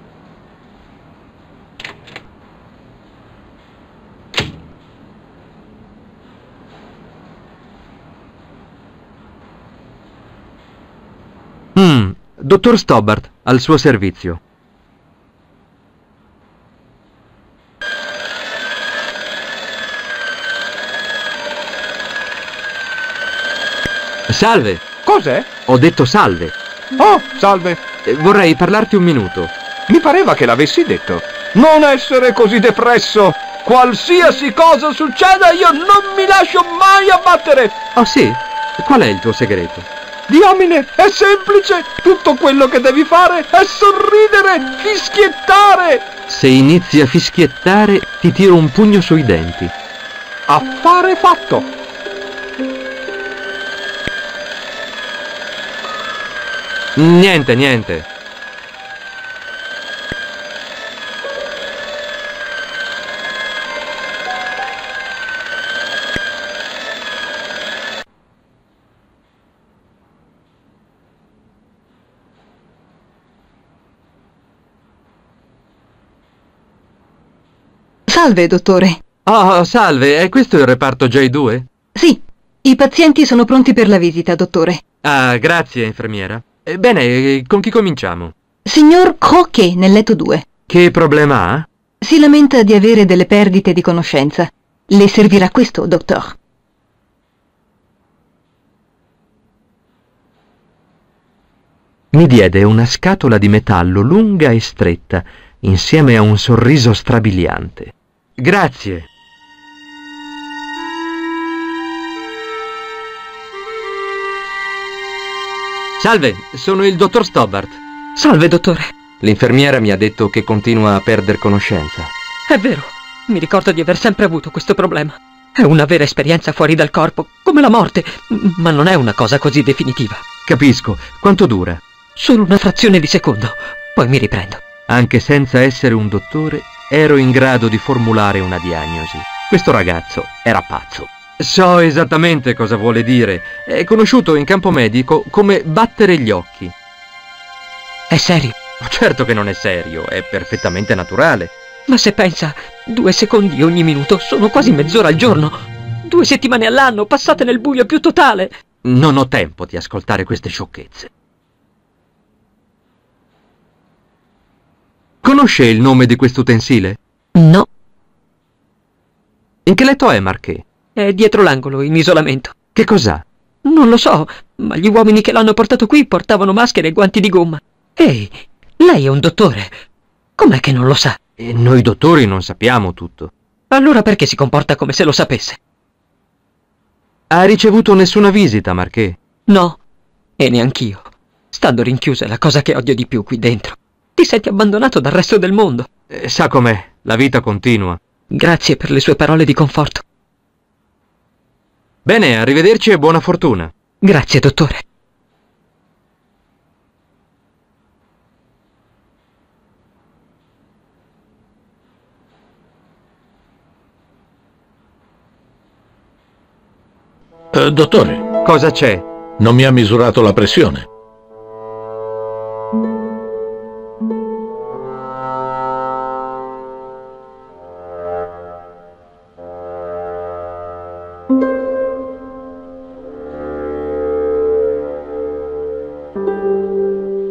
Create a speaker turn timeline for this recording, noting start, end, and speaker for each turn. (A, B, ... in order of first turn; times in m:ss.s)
0:11.8-0:14.4 A
0:24.3-0:24.8 A
0:25.0-0:25.4 B
0:25.7-0:26.5 A
0:27.0-0:27.8 B
0:28.0-0:29.5 A
0:29.9-0:37.7 B
0:37.9-0:39.9 A
0:40.3-0:46.0 B
0:46.3-0:49.7 A
0:50.5-0:51.6 B
0:57.0-0:58.0 A
1:18.1-1:19.0 C
1:19.2-1:21.7 A
1:22.0-1:24.8 C
1:25.0-1:28.3 A
1:28.6-1:30.4 C
1:30.7-1:31.6 A
1:32.0-1:36.3 C
1:42.1-1:49.1 A
1:56.0-1:57.8 A
1:58.2-1:58.9 D
1:59.2-2:02.1 A
2:02.5-2:10.2 D
2:10.5-2:11.8 A
2:12.2-2:14.6 D
2:14.9-2:26.7 A
2:28.1-2:28.5 D
2:28.8-2:31.5 A
2:31.9-2:38.5 D
2:38.8-2:41.1 A
2:45.2-2:47.0 A
2:47.3-2:47.7 D
2:49.6-2:50.6 A
2:51.0-2:52.6 D
2:52.7-2:53.2 A
2:53.6-2:59.7 D
3:00.4-3:01.2 D
3:01.4-3:03.3 A
3:03.7-3:05.6 D
3:07.3-3:09.2 A
3:09.5-3:09.8 D
3:10.4-3:15.9 D
3:16.1-3:18.0 A
3:18.3-3:20.0 D
3:22.0-3:23.7 A
3:24.0-3:24.8 D
3:37.5-3:38.3 E
3:38.4-3:39.0 A
3:39.4-3:40.8 E